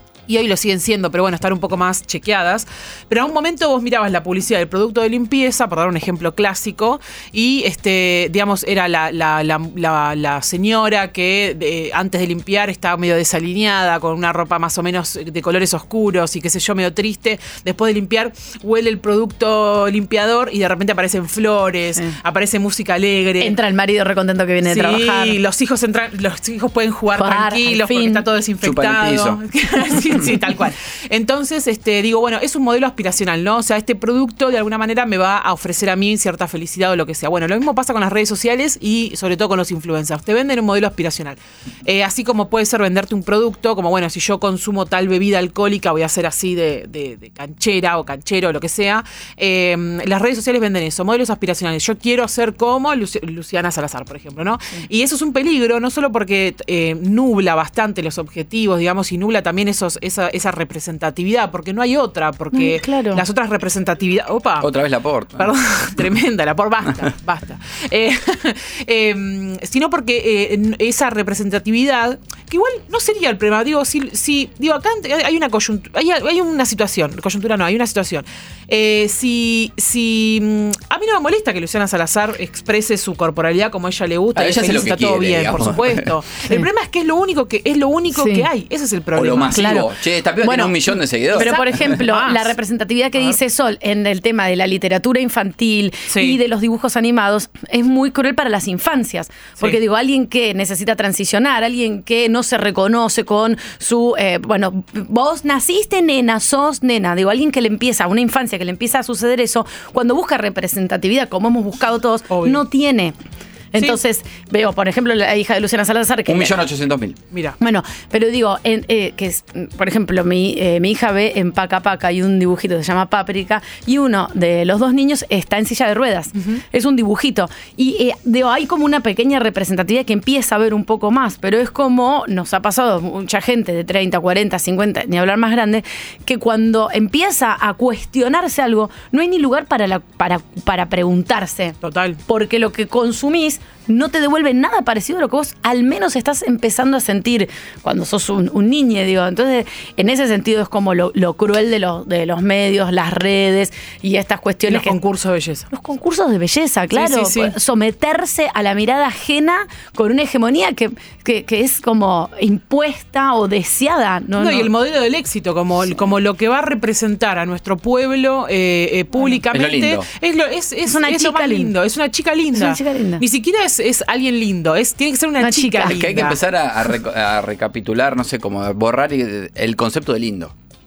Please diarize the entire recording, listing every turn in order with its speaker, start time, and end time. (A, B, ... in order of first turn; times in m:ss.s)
0:00.3-0:23.5 A
0:23.4-0:25.4 B
0:24.6-1:04.7 A
0:27.1-0:28.2 B
0:28.6-0:29.4 C
1:02.5-1:03.2 B
1:04.6-1:05.5 C
1:05.4-1:29.7 A
1:24.4-1:26.1 C
1:28.1-1:28.5 B
1:29.2-1:31.7 C
1:29.5-1:29.9 B
1:30.4-1:53.1 B
1:31.3-1:32.5 A
1:36.1-1:36.4 A
1:52.3-1:52.6 A
1:53.7-1:56.6 B
1:56.3-1:57.2 C
1:57.6-2:21.8 B
2:06.3-2:06.6 A
2:21.8-2:22.2 A
2:22.3-2:35.0 B
2:34.7-2:35.6 A
2:35.7-2:44.7 B
2:36.9-2:37.5 A
2:44.4-2:56.4 A
2:49.5-2:50.1 C
2:50.9-2:51.7 B
2:52.5-2:53.2 B
2:55.4-2:56.0 B
2:55.8-3:00.5 C